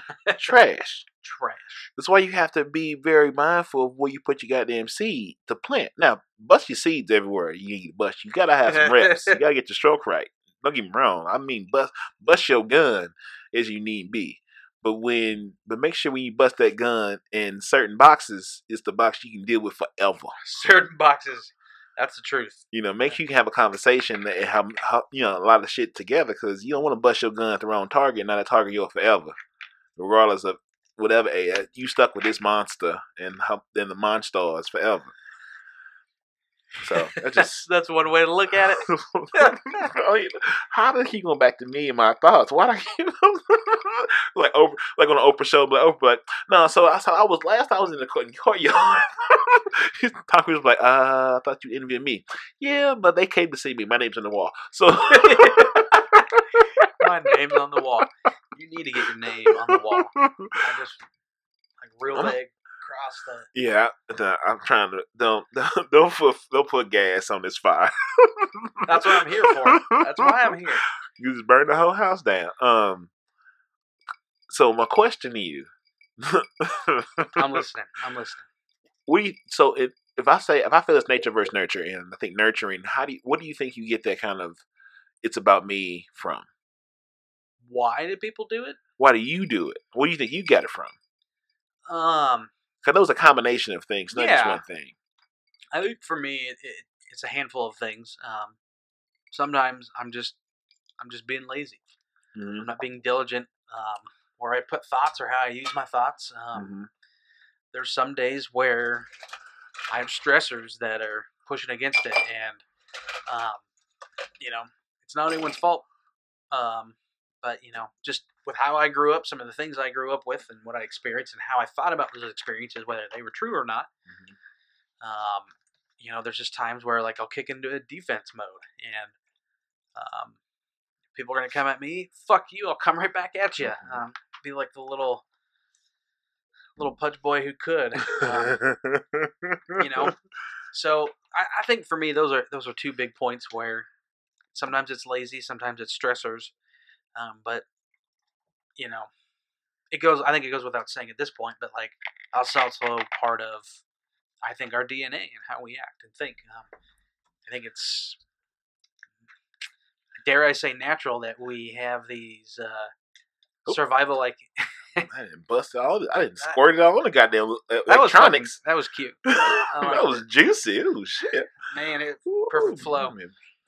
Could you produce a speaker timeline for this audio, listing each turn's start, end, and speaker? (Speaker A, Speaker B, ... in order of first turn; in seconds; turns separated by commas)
Speaker A: 0.1-0.5, Speaker B: 0.4-1.1, Speaker A: 1.2-1.9, Speaker B: 2.0-20.4, Speaker A: 8.7-9.4, Speaker A: 20.4-23.2, Speaker B: 22.7-29.4, Speaker B: 30.0-35.1, Speaker B: 36.8-37.6, Speaker A: 37.0-39.9, Speaker B: 38.8-56.0, Speaker A: 55.1-56.2, Speaker B: 56.6-56.9, Speaker A: 57.0-61.0, Speaker B: 59.5-60.6, Speaker A: 61.8-63.5, Speaker B: 63.5-70.6, Speaker A: 68.9-70.8, Speaker B: 71.2-73.1, Speaker B: 74.5-77.6, Speaker A: 77.4-78.5, Speaker B: 79.1-84.6, Speaker B: 85.2-86.5, Speaker A: 87.6-88.8, Speaker B: 89.0-91.0, Speaker A: 91.9-92.5, Speaker B: 92.8-94.9, Speaker A: 94.1-94.6, Speaker A: 95.7-98.6, Speaker A: 99.3-100.4, Speaker A: 101.0-101.9, Speaker B: 102.3-102.7, Speaker A: 102.6-106.7, Speaker B: 106.5-106.9, Speaker A: 107.7-109.1, Speaker A: 109.9-112.6, Speaker A: 113.3-113.7, Speaker A: 114.4-115.8, Speaker A: 116.5-123.9, Speaker B: 124.1-124.3, Speaker A: 125.0-129.2, Speaker A: 129.9-130.4, Speaker A: 131.1-135.2, Speaker B: 133.6-134.0, Speaker A: 136.8-138.6, Speaker B: 138.2-140.1, Speaker A: 139.8-140.2, Speaker A: 140.7-143.9, Speaker A: 144.5-146.5, Speaker A: 147.2-147.7, Speaker A: 148.8-149.1, Speaker A: 149.9-153.8, Speaker A: 154.4-156.7, Speaker A: 157.5-158.2, Speaker A: 160.2-162.9, Speaker A: 163.7-165.1, Speaker B: 165.0-168.6, Speaker A: 167.9-170.2, Speaker B: 169.3-171.5, Speaker A: 171.3-173.2, Speaker B: 172.3-173.3